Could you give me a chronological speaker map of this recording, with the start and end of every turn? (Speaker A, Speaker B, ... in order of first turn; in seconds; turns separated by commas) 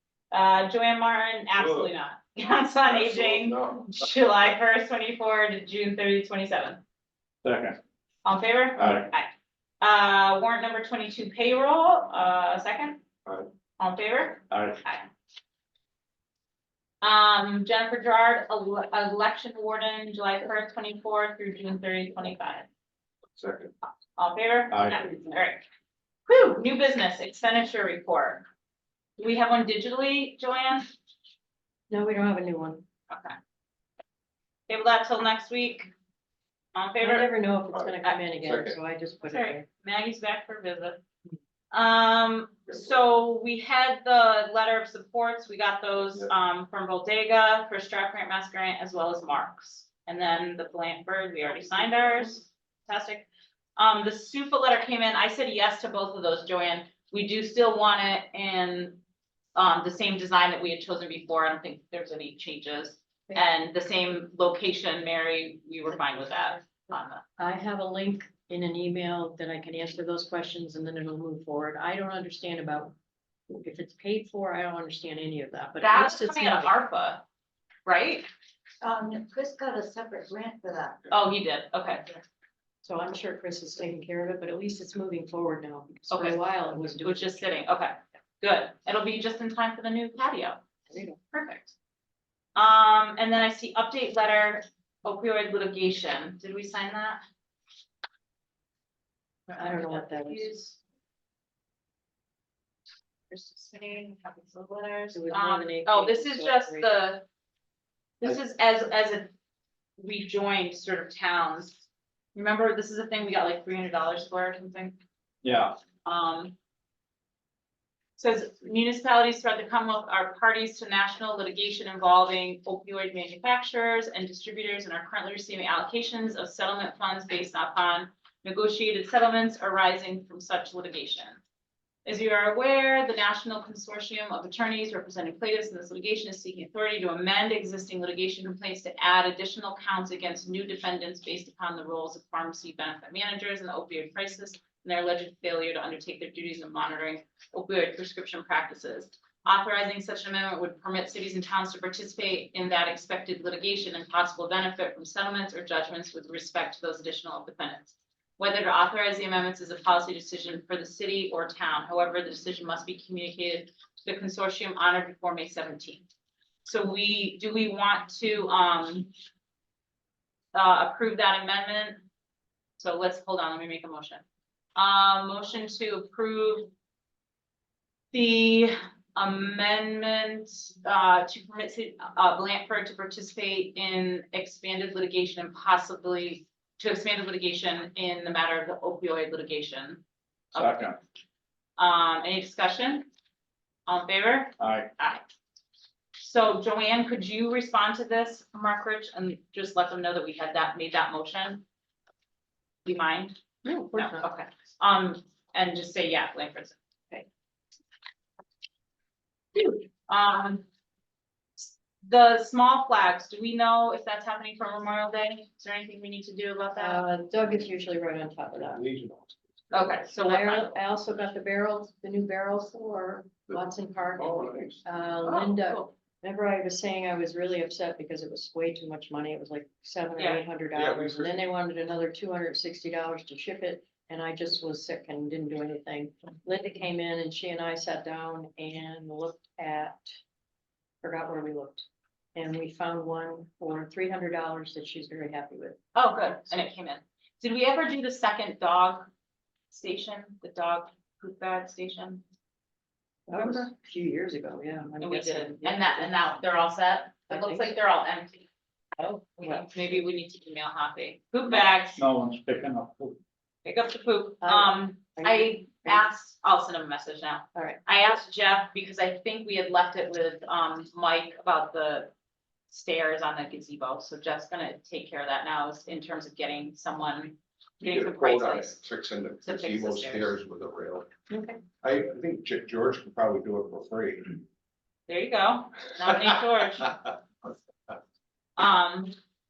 Speaker A: 0.3-6.8, Speaker B: 1.5-1.9, Speaker B: 2.8-4.0, Speaker C: 7.4-7.8, Speaker A: 8.2-13.0, Speaker C: 8.8-9.1, Speaker A: 13.8-15.1, Speaker C: 14.5-14.8, Speaker A: 17.0-22.6, Speaker B: 23.4-23.7, Speaker A: 24.2-25.6, Speaker C: 24.7-25.0, Speaker A: 26.3-28.4, Speaker A: 29.2-30.9, Speaker D: 31.9-32.8, Speaker A: 33.1-33.4, Speaker A: 34.7-35.9, Speaker A: 36.7-37.3, Speaker D: 37.0-39.6, Speaker B: 37.7-38.8, Speaker A: 39.2-41.0, Speaker A: 41.7-53.2, Speaker A: 53.8-59.0, Speaker A: 59.5-67.2, Speaker D: 67.4-72.9, Speaker D: 73.5-76.7, Speaker A: 75.8-77.2, Speaker A: 77.8-78.3, Speaker E: 78.8-81.0, Speaker A: 81.1-82.1, Speaker D: 82.8-87.4, Speaker A: 86.1-86.4, Speaker A: 87.0-90.6, Speaker D: 90.9-91.2, Speaker A: 91.3-91.7, Speaker A: 92.5-97.2, Speaker A: 99.5-100.8, Speaker D: 99.6-100.6, Speaker A: 103.3-107.2, Speaker D: 105.1-106.9, Speaker A: 108.2-109.3, Speaker A: 110.0-111.8, Speaker A: 112.3-115.0, Speaker C: 115.4-115.8, Speaker A: 116.0-116.5, Speaker A: 118.2-131.4, Speaker A: 132.0-166.1, Speaker A: 166.6-169.1, Speaker A: 170.5-172.0, Speaker A: 172.8-174.2, Speaker A: 174.8-176.7, Speaker A: 178.1-190.0, Speaker C: 190.5-191.0, Speaker A: 191.8-193.1, Speaker A: 193.9-195.2, Speaker C: 194.6-194.9, Speaker A: 196.2-201.6, Speaker A: 202.8-203.3, Speaker D: 203.6-204.2, Speaker A: 203.9-206.8, Speaker A: 209.5-210.6, Speaker A: 211.6-217.0, Speaker D: 216.7-218.8, Speaker B: 218.6-219.4, Speaker A: 219.7-220.8, Speaker D: 220.1-240.2, Speaker B: 223.5-224.8, Speaker A: 225.2-225.9, Speaker A: 230.2-230.4, Speaker B: 230.7-231.3, Speaker D: 241.0-245.8, Speaker A: 245.9-249.1, Speaker A: 249.7-252.2, Speaker D: 253.3-256.2, Speaker A: 255.0-258.4, Speaker D: 257.3-257.7, Speaker A: 259.0-262.0, Speaker C: 261.9-263.2, Speaker A: 263.6-272.1, Speaker D: 264.4-266.0, Speaker D: 267.5-267.8, Speaker A: 272.7-278.8, Speaker B: 277.8-281.1, Speaker A: 279.4-280.4, Speaker D: 281.3-281.6, Speaker B: 281.8-284.4, Speaker A: 285.1-287.0, Speaker A: 288.6-289.1